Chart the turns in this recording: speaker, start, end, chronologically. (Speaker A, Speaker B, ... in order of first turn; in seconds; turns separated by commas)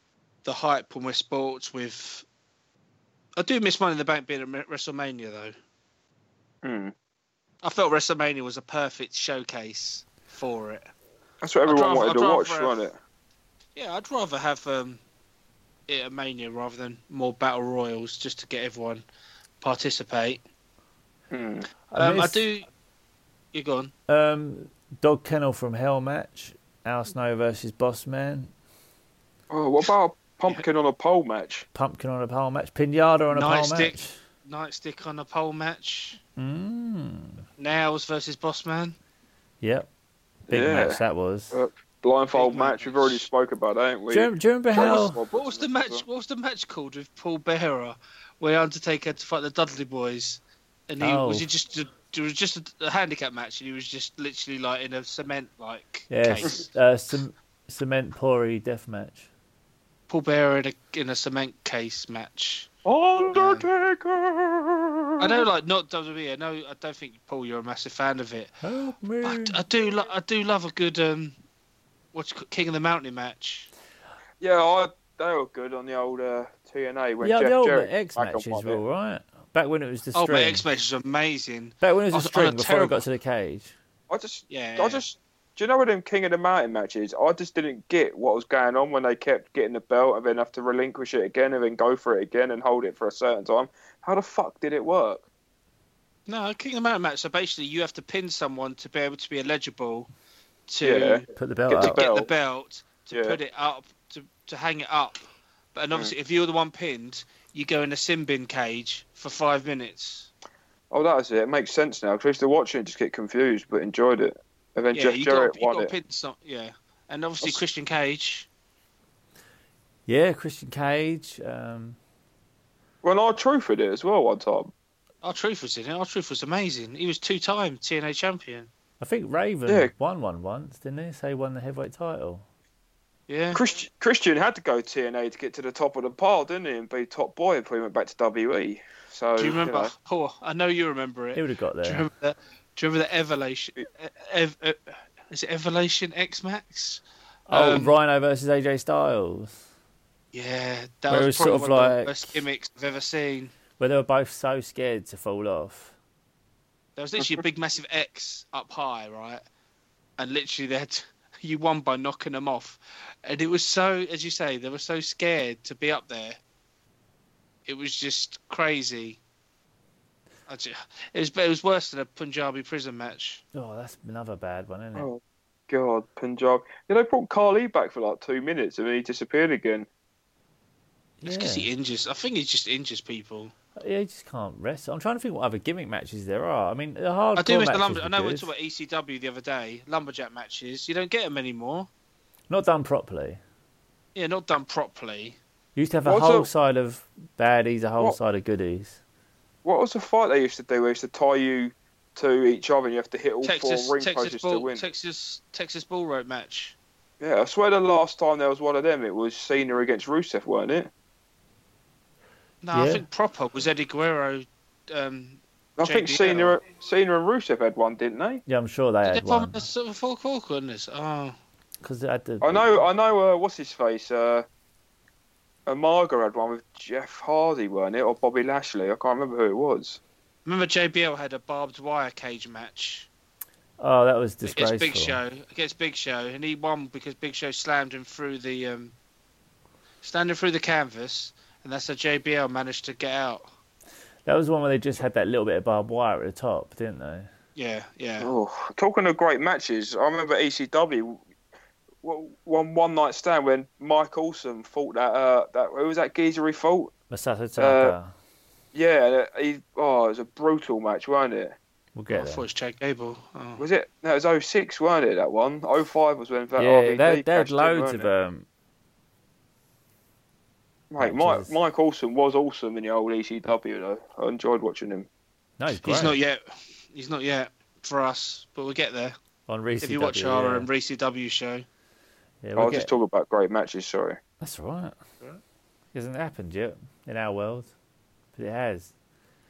Speaker A: 0.4-2.2, Speaker A: 3.4-5.5, Speaker B: 6.6-6.9, Speaker A: 7.6-10.9, Speaker B: 11.4-13.0, Speaker A: 11.7-12.8, Speaker A: 13.8-15.0, Speaker A: 15.9-19.0, Speaker A: 19.6-20.4, Speaker B: 21.3-21.7, Speaker C: 21.9-22.4, Speaker A: 22.0-22.7, Speaker A: 23.5-23.9, Speaker C: 24.1-28.5, Speaker B: 29.5-31.6, Speaker C: 31.7-34.1, Speaker A: 33.3-36.2, Speaker C: 36.4-37.4, Speaker A: 37.6-39.0, Speaker C: 39.6-39.9, Speaker B: 40.5-41.0, Speaker C: 40.5-41.5, Speaker B: 41.5-46.0, Speaker A: 42.3-43.2, Speaker C: 44.1-45.2, Speaker A: 44.8-56.6, Speaker C: 51.0-51.5, Speaker C: 56.1-59.3, Speaker A: 60.1-62.7, Speaker B: 62.8-65.4, Speaker A: 63.3-63.6, Speaker A: 65.2-68.6, Speaker C: 68.6-69.6, Speaker A: 69.2-71.4, Speaker A: 72.1-73.7, Speaker B: 74.4-78.8, Speaker C: 77.2-80.6, Speaker A: 80.1-83.0, Speaker C: 81.8-83.7, Speaker B: 84.1-95.2, Speaker A: 84.5-85.0, Speaker A: 96.3-100.1, Speaker A: 100.7-101.2, Speaker B: 100.8-102.3, Speaker C: 101.3-102.0, Speaker A: 101.8-110.3, Speaker B: 103.1-103.4, Speaker B: 110.9-115.9, Speaker A: 114.9-118.5, Speaker C: 120.1-122.0, Speaker B: 123.0-124.7, Speaker A: 125.2-128.7, Speaker C: 129.0-132.4, Speaker A: 133.3-133.6, Speaker B: 133.5-139.9, Speaker A: 139.4-147.9, Speaker C: 141.3-142.1, Speaker C: 147.5-149.5, Speaker A: 150.3-153.5, Speaker C: 151.1-152.4, Speaker C: 153.8-155.9, Speaker A: 157.0-159.4, Speaker A: 160.2-166.4, Speaker A: 167.7-169.2, Speaker A: 170.5-173.4, Speaker C: 173.5-175.1, Speaker B: 174.9-179.9, Speaker C: 181.2-181.7, Speaker A: 181.2-183.5, Speaker C: 183.8-188.5, Speaker A: 187.3-191.9, Speaker C: 192.5-193.4, Speaker A: 194.1-195.4, Speaker C: 195.8-199.0, Speaker B: 196.1-196.5, Speaker B: 199.6-204.8, Speaker A: 203.4-206.8, Speaker B: 207.2-210.9, Speaker A: 212.6-216.6, Speaker C: 212.7-213.0, Speaker B: 215.8-218.4, Speaker C: 218.5-219.6, Speaker A: 219.0-221.4, Speaker C: 221.8-222.7, Speaker B: 222.4-224.4, Speaker B: 225.7-230.0, Speaker A: 230.4-233.1, Speaker C: 233.8-235.2, Speaker A: 234.4-238.9, Speaker A: 240.0-243.4, Speaker C: 244.2-247.3, Speaker A: 247.6-248.3, Speaker B: 248.2-251.2, Speaker B: 252.0-256.9, Speaker C: 257.1-258.1, Speaker B: 257.6-257.9, Speaker B: 258.7-261.6, Speaker C: 261.9-262.4, Speaker A: 262.1-263.6, Speaker B: 263.6-268.1, Speaker C: 266.6-268.5, Speaker B: 270.9-275.1, Speaker C: 271.0-271.6, Speaker C: 275.6-276.2, Speaker A: 275.8-276.4, Speaker A: 276.9-279.1, Speaker C: 279.5-280.7, Speaker A: 279.8-281.6, Speaker C: 282.4-282.9, Speaker B: 282.6-284.2, Speaker C: 284.4-285.0, Speaker C: 285.9-287.7, Speaker C: 288.3-288.9